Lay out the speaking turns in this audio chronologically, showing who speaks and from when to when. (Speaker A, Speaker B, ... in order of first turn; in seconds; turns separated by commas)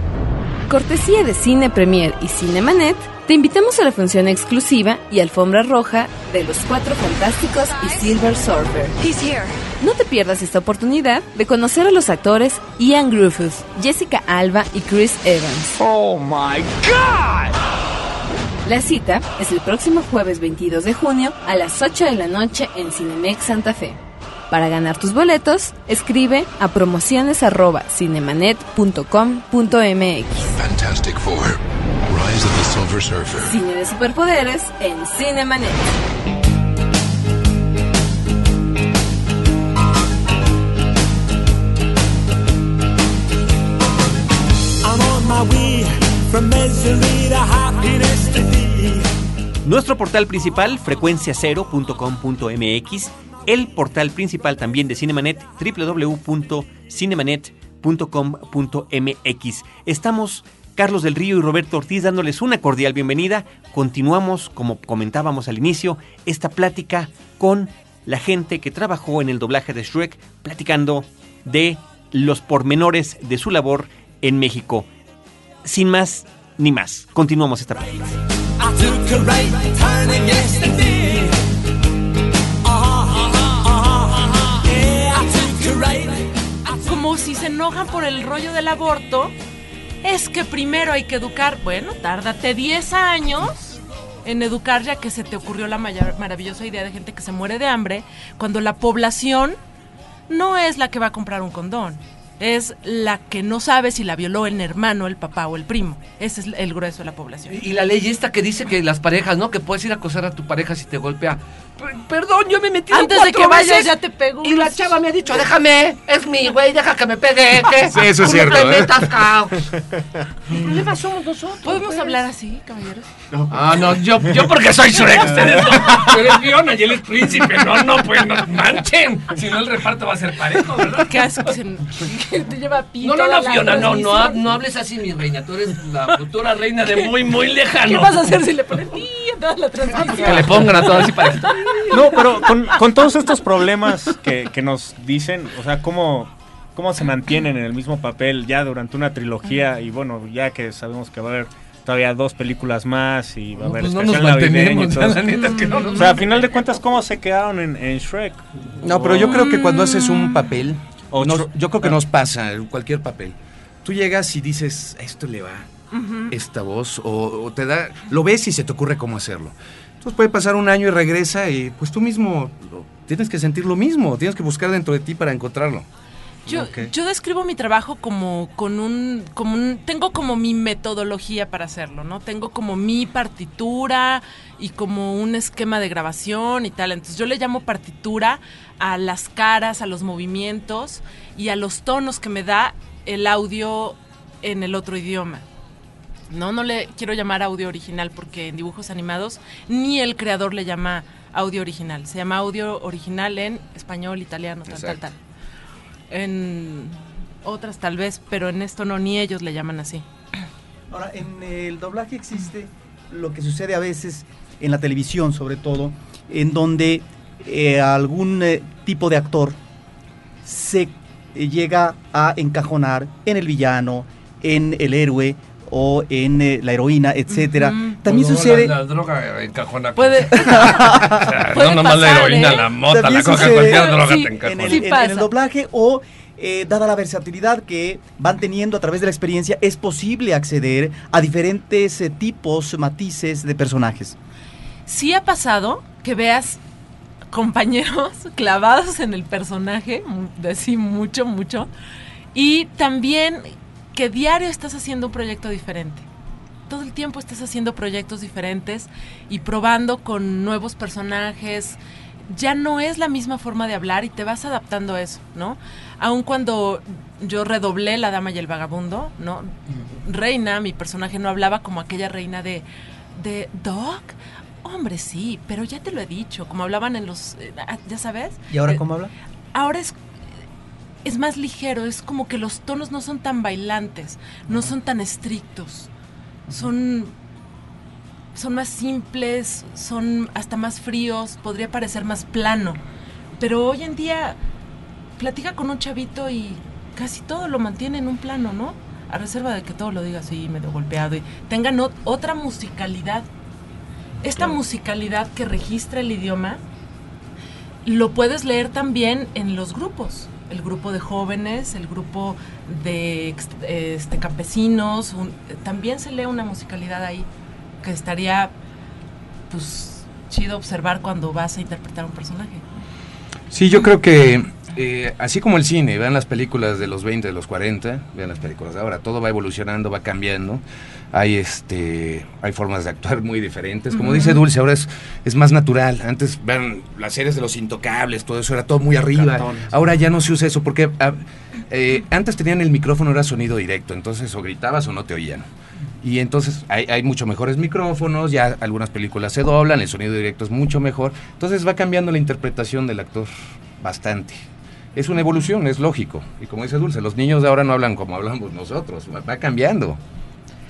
Speaker A: 0.7-15.8, Speaker B: 15.8-17.5, Speaker A: 18.6-24.0, Speaker A: 24.5-30.5, Speaker C: 30.5-33.6, Speaker A: 33.4-36.0, Speaker B: 44.8-49.1, Speaker D: 49.6-74.9, Speaker D: 75.6-78.1, Speaker B: 78.6-81.4, Speaker B: 82.6-86.5, Speaker E: 86.8-89.3, Speaker E: 90.0-93.6, Speaker E: 94.2-99.6, Speaker E: 100.3-107.5, Speaker F: 107.5-119.7, Speaker E: 112.9-114.8, Speaker G: 117.8-119.1, Speaker F: 120.5-122.2, Speaker E: 121.6-123.1, Speaker F: 123.4-131.5, Speaker E: 130.9-134.4, Speaker F: 133.0-138.4, Speaker E: 137.8-142.8, Speaker F: 139.9-142.4, Speaker H: 141.9-159.3, Speaker F: 153.5-156.5, Speaker E: 155.5-156.1, Speaker G: 158.8-165.7, Speaker E: 159.3-160.4, Speaker H: 161.1-161.9, Speaker E: 166.0-166.3, Speaker G: 166.3-175.9, Speaker I: 176.5-176.9, Speaker E: 176.5-195.4, Speaker E: 196.3-205.2, Speaker G: 204.7-205.0, Speaker E: 206.1-210.0, Speaker I: 210.9-219.6, Speaker I: 220.4-228.8, Speaker E: 227.3-228.0, Speaker F: 228.1-234.9, Speaker E: 229.9-232.7, Speaker I: 230.6-231.4, Speaker I: 232.8-244.2, Speaker E: 233.6-235.3, Speaker E: 244.9-246.6, Speaker E: 247.3-251.7, Speaker E: 252.3-256.1, Speaker E: 256.7-278.8, Speaker I: 278.5-279.1, Speaker E: 279.5-280.0, Speaker E: 281.0-285.9, Speaker E: 286.5-287.1, Speaker E: 288.3-292.8, Speaker E: 293.4-294.4, Speaker E: 295.2-303.3, Speaker E: 304.2-306.6, Speaker E: 307.8-317.3, Speaker E: 317.8-318.5, Speaker E: 319.5-322.6, Speaker G: 323.5-345.4, Speaker E: 334.0-334.4, Speaker H: 339.1-339.7, Speaker G: 346.0-360.0